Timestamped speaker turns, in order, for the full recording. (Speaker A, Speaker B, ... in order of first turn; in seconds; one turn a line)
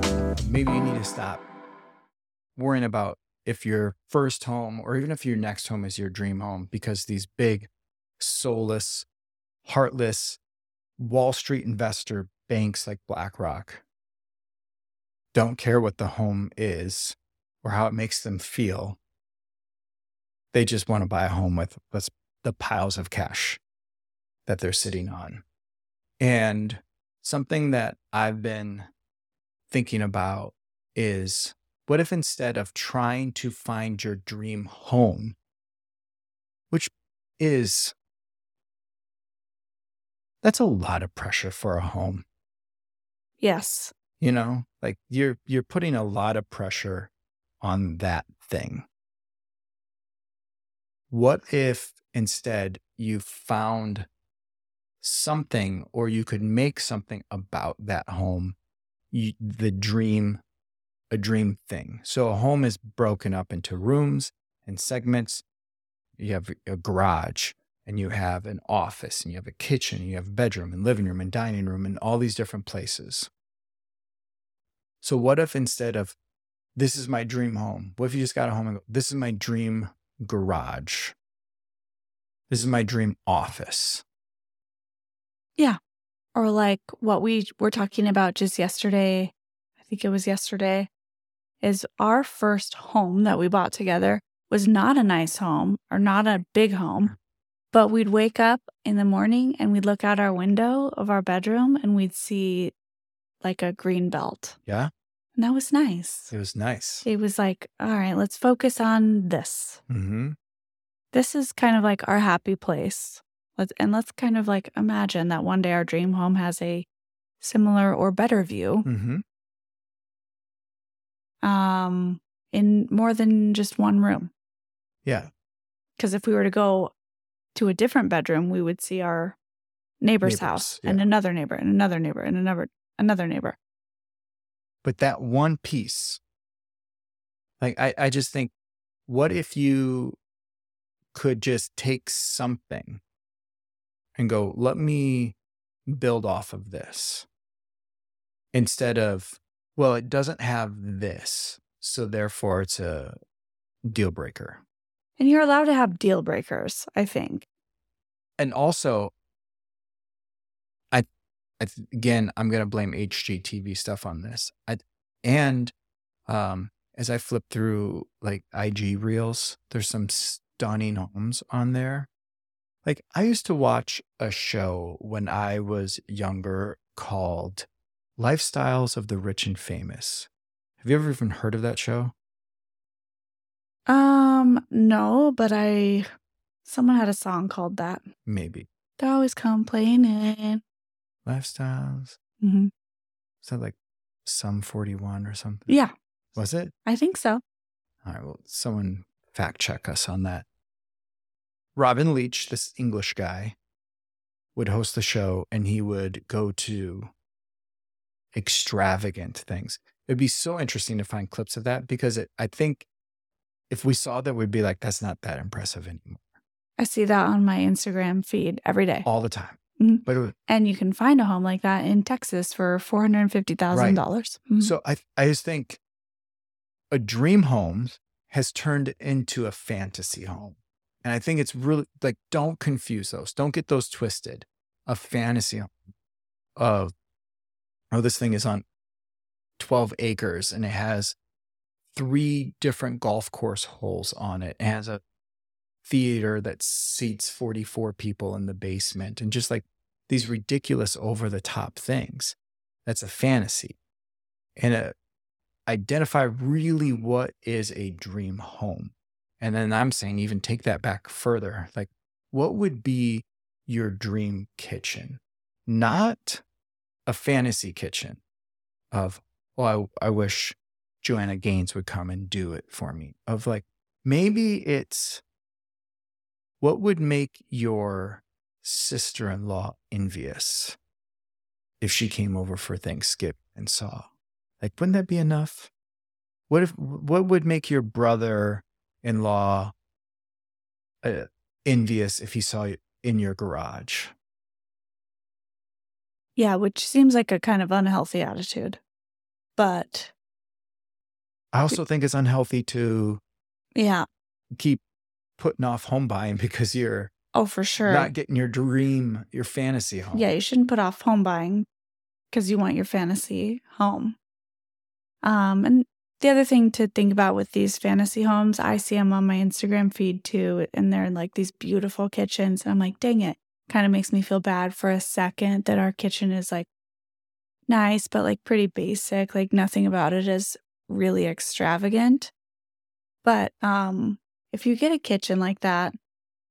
Speaker A: 0.3-1.4
Speaker A: 2.6-9.1
Speaker A: 9.7-10.4
Speaker A: 11.0-13.8
Speaker A: 15.3-19.0
Speaker A: 20.5-23.6
Speaker A: 24.5-25.4
Speaker A: 26.2-28.9
Speaker A: 29.7-35.4
Speaker A: 36.7-38.0
Speaker A: 40.4-42.2
Speaker B: 43.4-43.9
Speaker A: 44.2-47.1
Speaker A: 47.6-48.9
Speaker A: 51.1-54.1
Speaker A: 55.0-58.6
Speaker A: 59.1-60.4
Speaker A: 61.1-65.4
Speaker A: 66.2-73.3
Speaker A: 75.0-76.2
Speaker A: 76.8-81.2
Speaker A: 82.5-84.0
Speaker B: 86.3-89.3
Speaker B: 89.9-90.9
Speaker B: 91.6-97.1
Speaker B: 97.7-102.7
Speaker B: 103.4-104.6
Speaker B: 105.4-106.3
Speaker A: 106.3-107.1
Speaker B: 107.0-109.8
Speaker A: 109.9-110.4
Speaker B: 111.1-116.9
Speaker B: 117.4-118.9
Speaker A: 118.8-119.2
Speaker B: 121.4-124.3
Speaker B: 126.0-127.0
Speaker B: 127.5-129.4
Speaker B: 130.0-133.6
Speaker A: 130.2-131.1
Speaker A: 134.8-136.2
Speaker A: 137.6-138.5
Speaker A: 139.1-140.2
Speaker A: 141.1-143.0
Speaker A: 144.2-145.4
Speaker A: 145.9-147.3
Speaker A: 148.5-153.2
Speaker A: 153.9-154.6
Speaker B: 155.2-157.5
Speaker A: 158.4-159.1
Speaker A: 161.6-165.7
Speaker A: 166.3-172.1
Speaker A: 172.8-180.3
Speaker A: 180.8-182.1
Speaker B: 183.9-186.1
Speaker B: 186.7-188.1
Speaker A: 188.3-188.7
Speaker B: 189.0-190.6
Speaker A: 191.2-192.2
Speaker B: 192.4-192.7
Speaker A: 193.4-195.7
Speaker B: 195.7-195.9
Speaker A: 196.4-196.7
Speaker B: 196.9-197.4
Speaker A: 198.0-200.5
Speaker A: 201.8-203.6
Speaker A: 204.6-207.1
Speaker A: 208.3-212.9
Speaker A: 213.7-216.2
Speaker B: 216.8-219.1
Speaker A: 219.0-220.3
Speaker B: 219.8-224.7
Speaker A: 223.7-224.0
Speaker A: 224.6-225.8
Speaker A: 226.9-235.7
Speaker A: 236.6-236.9
Speaker A: 237.9-238.7
Speaker A: 239.6-241.2
Speaker A: 241.9-245.0
Speaker A: 245.8-253.8
Speaker A: 254.6-254.9
Speaker A: 255.7-266.4
Speaker A: 267.1-268.2
Speaker A: 268.9-275.2
Speaker A: 276.6-280.8
Speaker A: 281.8-284.1
Speaker A: 284.6-285.7
Speaker A: 286.5-289.7
Speaker A: 291.0-294.1
Speaker B: 296.4-298.8
Speaker B: 299.6-300.1
Speaker A: 301.5-303.2
Speaker B: 303.8-304.1
Speaker A: 304.5-304.8
Speaker A: 305.4-307.1
Speaker B: 307.3-308.1
Speaker A: 307.9-310.3
Speaker B: 310.1-311.7
Speaker B: 312.3-314.2
Speaker B: 315.2-326.7
Speaker B: 327.7-332.3
Speaker B: 333.2-335.9